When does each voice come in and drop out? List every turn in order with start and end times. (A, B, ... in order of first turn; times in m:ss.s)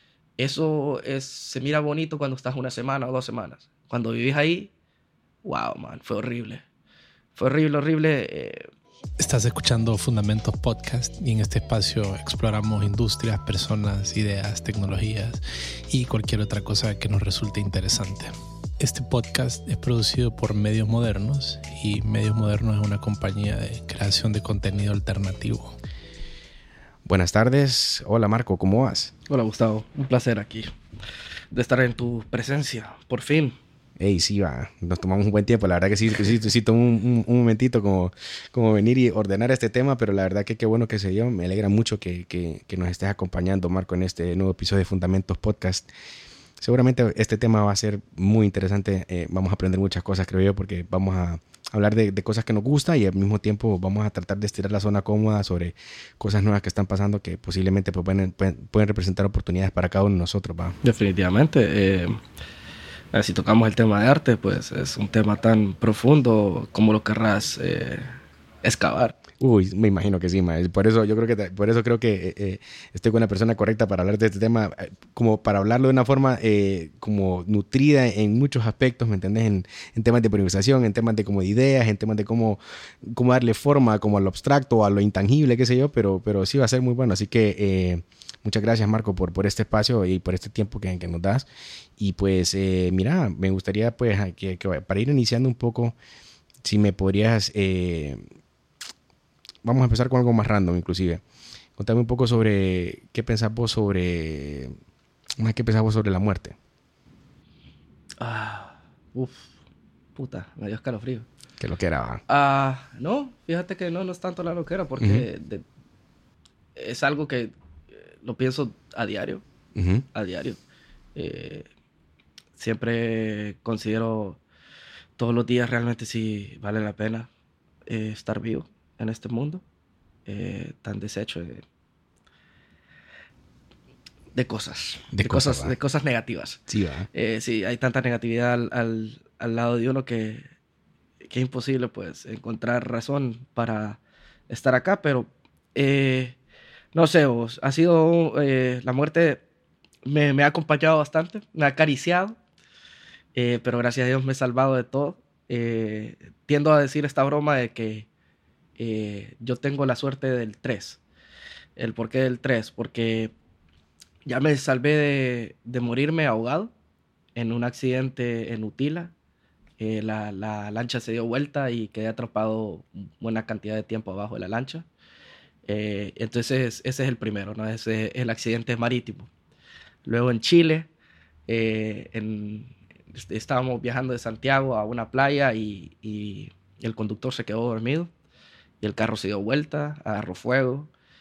0:00.4-0:04.7 A
0:05.4-0:06.6 A
0:07.4-0:08.7 A
0:09.2-0:25.8 B
0:27.0-0:29.1 C
0:29.3-0:30.7 A
0:31.5-0:33.6 A
0:34.0-0:45.9 C
0:46.6-1:00.8 C
1:00.8-1:02.2 A
1:03.1-1:08.1 A
1:08.6-1:09.2 A
1:09.4-1:36.0 C
1:36.6-1:38.2 C
1:39.6-1:41.2 C
1:41.8-1:44.7 C
1:45.4-1:46.6 C
1:48.2-1:49.5 A
1:50.2-1:51.3 A
1:51.6-1:52.2 C
1:52.3-1:55.6 A
1:55.0-1:55.3 C
1:56.8-1:59.4 A
1:59.8-2:00.0 C
2:00.1-2:00.6 A
2:01.2-2:01.7 A
2:02.6-2:04.4 A
2:05.2-2:07.3 A
2:07.9-2:09.6 A
2:10.3-2:11.6 A
2:14.4-2:16.6 A
2:15.1-2:15.7 C
2:16.7-2:17.1 C
2:17.1-2:20.4 A
2:21.2-2:26.4 A
2:26.9-2:29.4 A
2:30.1-2:32.4 A
2:33.4-2:38.1 A
2:38.8-2:41.0 A
2:41.8-2:43.3 A
2:44.3-2:46.7 A
2:47.4-2:49.1 A
2:49.8-2:54.9 A
2:55.7-2:59.3 A
3:00.0-3:00.9 A
3:01.5-3:08.1 A
3:08.8-3:10.9 A